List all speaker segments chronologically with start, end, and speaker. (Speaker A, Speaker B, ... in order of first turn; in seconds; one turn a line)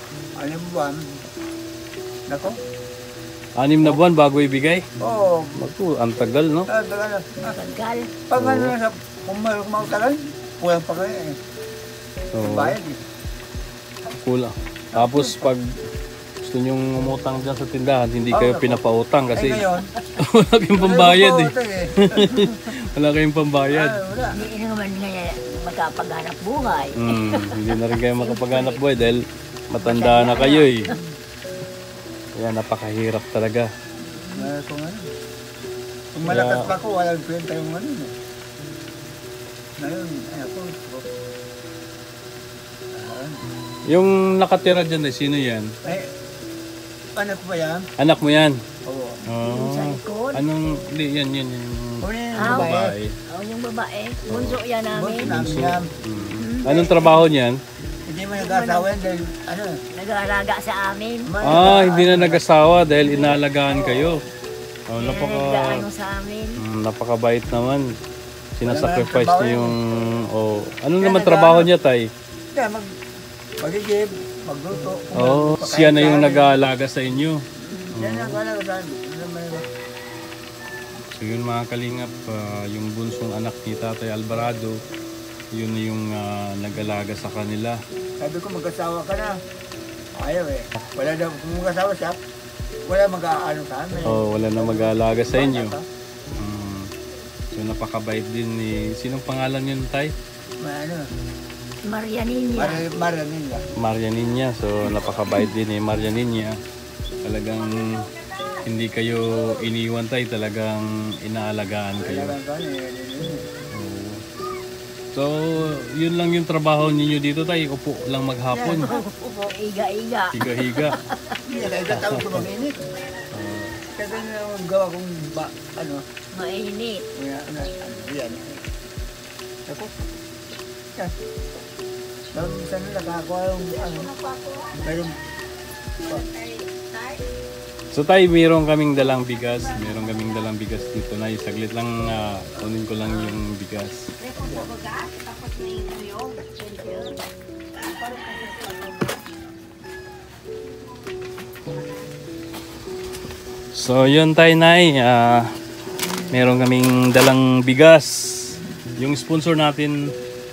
Speaker A: 0.4-1.0
Speaker B: 3.6-4.8
Speaker A: 5.0-5.5
Speaker B: 5.6-6.7
Speaker A: 6.7-7.6
Speaker C: 7.5-8.1
Speaker A: 8.3-11.3
Speaker B: 8.3-8.7
Speaker B: 12.3-12.8
Speaker A: 12.4-13.0
Speaker B: 14.2-15.7
Speaker A: 14.9-15.4
Speaker B: 16.4-19.6
Speaker A: 18.3-18.8
Speaker A: 19.3-19.9
Speaker B: 20.2-24.0
Speaker A: 20.8-22.6
Speaker A: 23.7-24.4
Speaker C: 24.3-28.8
Speaker B: 26.9-30.8
Speaker C: 29.8-31.0
Speaker B: 32.4-33.7
Speaker C: 34.1-34.5
Speaker A: 34.3-35.0
Speaker A: 36.1-38.1
Speaker B: 36.3-36.7
Speaker A: 39.8-41.0
Speaker A: 42.9-43.4
Speaker B: 43.9-45.7
Speaker A: 47.1-47.8
Speaker B: 48.0-48.6
Speaker A: 48.9-49.2
Speaker B: 49.3-53.1
Speaker C: 49.4-50.4
Speaker A: 52.0-52.9
Speaker C: 52.4-52.7
Speaker C: 53.3-55.3
Speaker B: 54.3-54.6
Speaker A: 54.9-55.8
Speaker B: 55.2-57.6
Speaker C: 56.4-57.2
Speaker A: 56.7-56.9
Speaker A: 58.1-59.7
Speaker C: 58.3-58.9
Speaker C: 59.9-61.8
Speaker A: 61.2-62.4
Speaker B: 61.4-64.2
Speaker C: 63.0-64.1
Speaker B: 64.9-65.8
Speaker C: 64.9-66.6
Speaker B: 66.6-67.9
Speaker B: 68.5-72.1
Speaker A: 68.6-69.8
Speaker A: 71.0-71.7
Speaker A: 72.5-72.9
Speaker A: 73.6-76.5
Speaker B: 75.2-78.4
Speaker A: 78.0-79.7
Speaker B: 81.1-84.8
Speaker B: 85.5-87.8
Speaker A: 88.2-89.3
Speaker A: 90.2-92.2
Speaker A: 92.8-95.8
Speaker B: 94.1-95.8
Speaker B: 96.4-96.9
Speaker B: 97.5-100.1
Speaker A: 100.6-101.0
Speaker C: 101.8-102.8
Speaker A: 102.5-103.6
Speaker B: 103.8-106.6
Speaker B: 107.2-108.0
Speaker B: 108.6-112.3
Speaker A: 112.0-113.5
Speaker B: 113.7-114.2
Speaker B: 115.1-118.9
Speaker A: 118.5-119.5
Speaker C: 118.8-121.4
Speaker B: 120.3-121.0
Speaker A: 121.5-122.8
Speaker B: 121.9-122.4
Speaker B: 123.3-123.8
Speaker A: 123.9-126.0
Speaker C: 126.3-127.0
Speaker A: 127.2-128.6
Speaker A: 132.3-134.1
Speaker C: 134.2-134.7
Speaker A: 134.8-135.1
Speaker C: 136.3-137.2
Speaker B: 137.9-144.1
Speaker C: 144.3-147.2
Speaker C: 147.8-149.1
Speaker B: 153.7-155.5
Speaker B: 156.3-160.0